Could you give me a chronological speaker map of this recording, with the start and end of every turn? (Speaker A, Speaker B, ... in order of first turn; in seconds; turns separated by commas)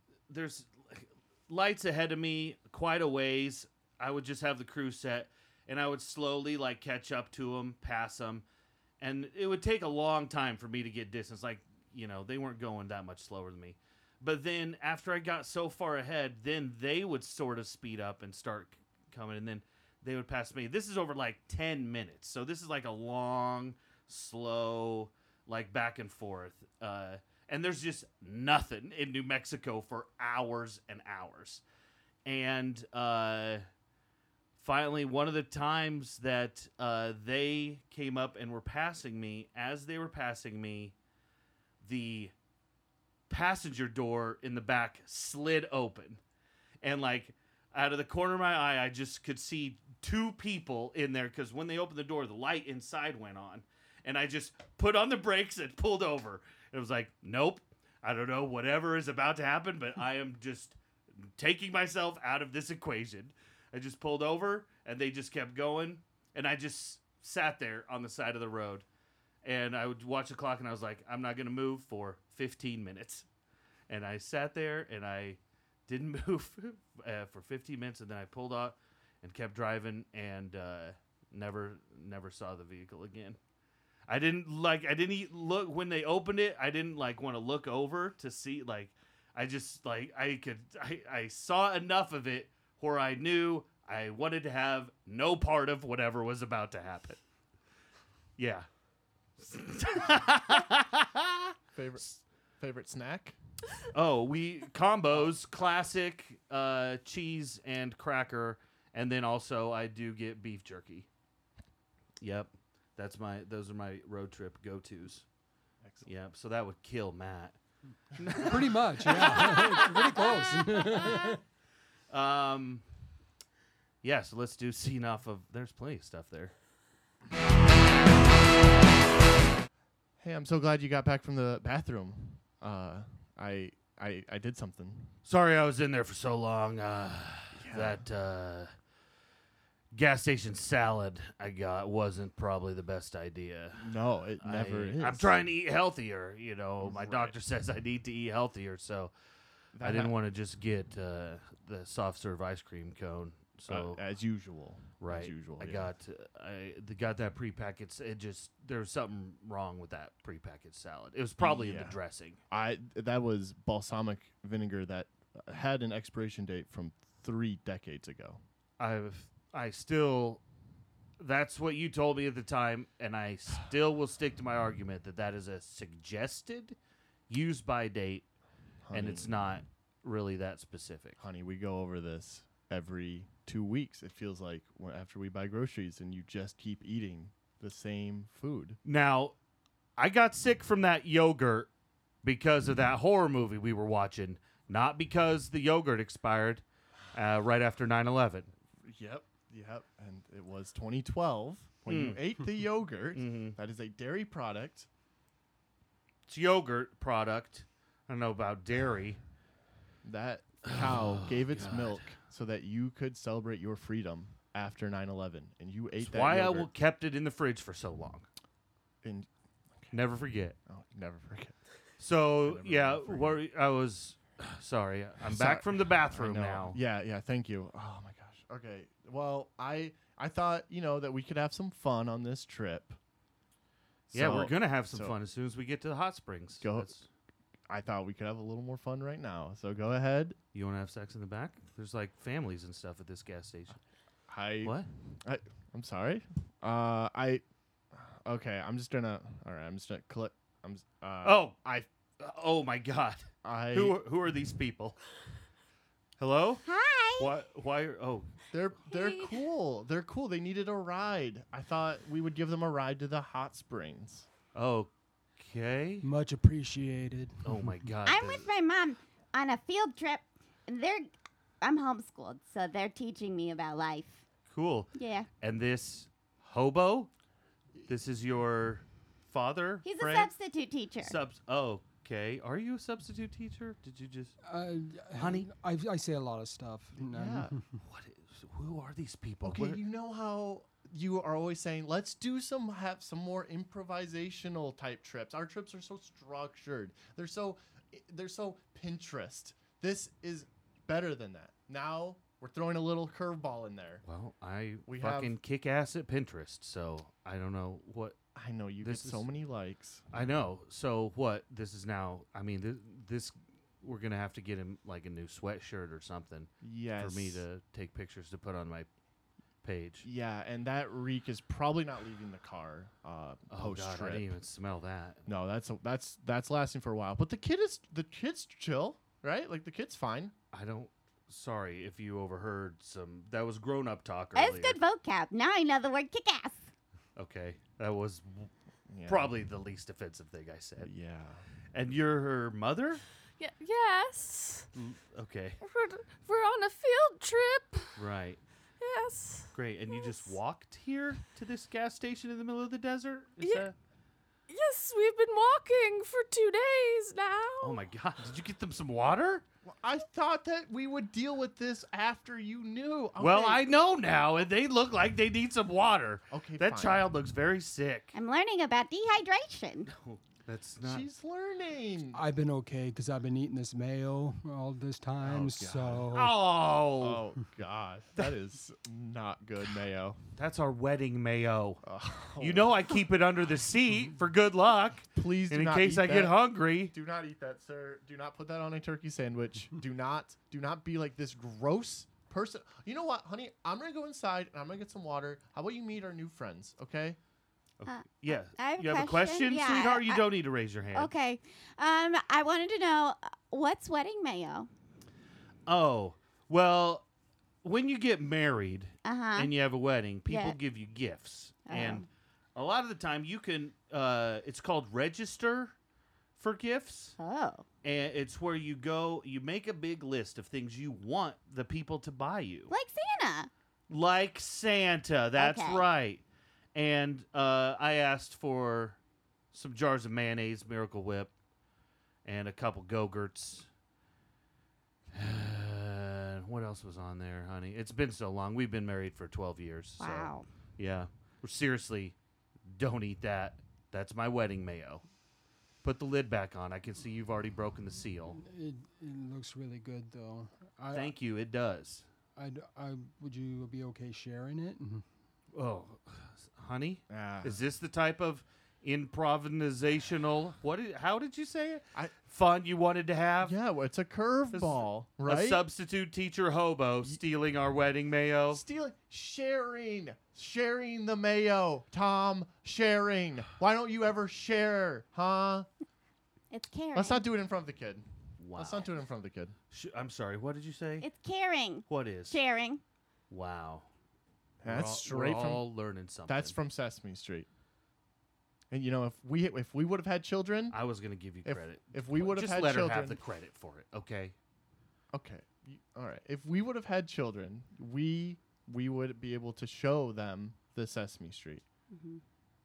Speaker A: 0.3-8.4, Speaker A: 9.0-31.6, Speaker A: 32.2-33.6, Speaker A: 34.6-40.9, Speaker A: 41.8-42.3, Speaker A: 43.3-46.2, Speaker A: 46.8-68.8, Speaker A: 69.4-73.3, Speaker A: 73.9-83.4, Speaker A: 84.1-97.2, Speaker A: 98.4-98.7, Speaker A: 99.4-101.5, Speaker B: 101.7-103.4, Speaker A: 103.9-111.1, Speaker A: 112.2-115.2, Speaker B: 115.8-116.1, Speaker A: 116.0-117.6, Speaker A: 118.2-121.3, Speaker C: 118.5-121.4, Speaker A: 122.1-122.8, Speaker A: 124.0-126.5, Speaker B: 130.2-135.1, Speaker A: 135.2-138.7, Speaker B: 137.6-138.0, Speaker A: 139.9-149.1, Speaker B: 143.8-145.4, Speaker B: 146.8-147.3, Speaker B: 149.7-150.1, Speaker A: 149.8-154.0, Speaker B: 153.7-155.9, Speaker A: 155.0-162.4, Speaker B: 161.4-162.0, Speaker B: 162.5-168.4, Speaker A: 168.8-170.4, Speaker A: 171.2-176.8, Speaker A: 177.3-178.2, Speaker B: 178.8-179.6, Speaker A: 178.9-181.2, Speaker B: 181.2-188.8, Speaker A: 188.8-189.3, Speaker A: 190.0-191.7, Speaker A: 192.2-198.5, Speaker B: 198.8-204.9, Speaker A: 201.9-202.2, Speaker A: 203.1-203.6, Speaker A: 206.3-209.2, Speaker B: 210.0-216.7, Speaker A: 210.6-212.1, Speaker A: 216.0-218.2, Speaker B: 219.0-219.9, Speaker A: 219.9-220.6, Speaker B: 220.7-221.6, Speaker A: 222.0-226.8, Speaker B: 222.4-223.4, Speaker B: 225.2-233.0, Speaker B: 234.1-235.2, Speaker A: 234.1-237.0, Speaker B: 236.6-237.0, Speaker B: 237.7-240.4, Speaker A: 240.5-243.8, Speaker B: 244.3-251.9, Speaker A: 244.6-244.9, Speaker A: 251.2-251.5, Speaker A: 252.2-255.0, Speaker B: 253.4-254.0, Speaker A: 256.2-256.6, Speaker D: 256.7-257.3, Speaker A: 257.2-258.3, Speaker B: 258.5-264.3, Speaker A: 264.5-266.1, Speaker C: 266.0-267.7, Speaker A: 267.4-268.5, Speaker D: 268.1-271.0, Speaker D: 271.6-274.1, Speaker A: 274.5-277.1, Speaker D: 275.0-275.2, Speaker A: 277.9-280.3, Speaker D: 279.9-281.1, Speaker A: 281.0-284.3, Speaker C: 284.4-287.7, Speaker A: 285.1-285.5, Speaker B: 287.0-287.5, Speaker A: 287.8-289.8, Speaker B: 289.4-304.0, Speaker A: 304.1-308.2, Speaker B: 304.9-305.3, Speaker B: 308.3-310.0, Speaker A: 308.8-309.3, Speaker A: 310.1-318.9, Speaker B: 316.6-317.4, Speaker A: 319.6-320.1, Speaker B: 320.0-324.4, Speaker A: 323.5-325.2, Speaker B: 325.2-330.3, Speaker A: 330.5-334.8, Speaker D: 334.4-336.6, Speaker A: 337.2-338.5, Speaker B: 338.9-339.4, Speaker A: 339.1-340.9, Speaker B: 340.8-341.4, Speaker A: 341.7-343.0, Speaker E: 343.4-344.7, Speaker A: 344.7-345.6, Speaker E: 345.6-348.0, Speaker A: 347.9-348.4, Speaker E: 348.8-350.4, Speaker A: 349.5-353.7, Speaker E: 353.4-353.7, Speaker E: 354.5-357.8, Speaker A: 357.6-359.4, Speaker B: 359.6-363.6, Speaker A: 363.2-368.1, Speaker B: 366.3-367.1, Speaker D: 368.2-369.8, Speaker A: 369.9-371.1, Speaker B: 370.8-372.2, Speaker C: 372.1-376.3, Speaker B: 375.2-376.1, Speaker A: 376.1-377.2, Speaker B: 377.0-380.2, Speaker A: 380.4-381.8, Speaker B: 381.8-382.9, Speaker A: 382.4-386.9, Speaker B: 385.1-397.2, Speaker A: 397.8-401.1, Speaker D: 398.5-400.2, Speaker D: 400.9-404.7, Speaker A: 405.7-407.0, Speaker A: 407.6-415.7, Speaker D: 409.1-409.5, Speaker D: 410.3-410.5, Speaker D: 411.7-412.0, Speaker A: 416.4-417.2, Speaker D: 417.2-417.6, Speaker A: 417.8-422.7, Speaker D: 422.7-423.5, Speaker A: 423.9-426.2, Speaker D: 425.4-425.8, Speaker A: 426.7-429.0, Speaker A: 429.5-431.3, Speaker A: 432.2-433.7, Speaker A: 435.1-442.1, Speaker D: 440.0-440.4, Speaker A: 442.7-445.0, Speaker A: 445.8-448.4, Speaker C: 448.3-451.1, Speaker A: 450.9-452.1, Speaker C: 452.4-455.0, Speaker A: 455.5-463.5, Speaker B: 457.1-457.6, Speaker B: 463.4-465.6, Speaker A: 464.5-468.6, Speaker B: 468.5-475.7, Speaker D: 476.5-477.2, Speaker B: 476.9-479.5, Speaker A: 478.4-478.9, Speaker A: 479.7-481.1, Speaker D: 481.0-482.8, Speaker A: 481.9-482.4, Speaker A: 483.3-483.9, Speaker B: 484.6-485.6, Speaker A: 484.6-486.5, Speaker B: 486.2-487.5, Speaker B: 488.7-490.8, Speaker A: 490.7-494.3, Speaker B: 491.4-493.2, Speaker B: 495.1-501.6, Speaker D: 501.9-502.2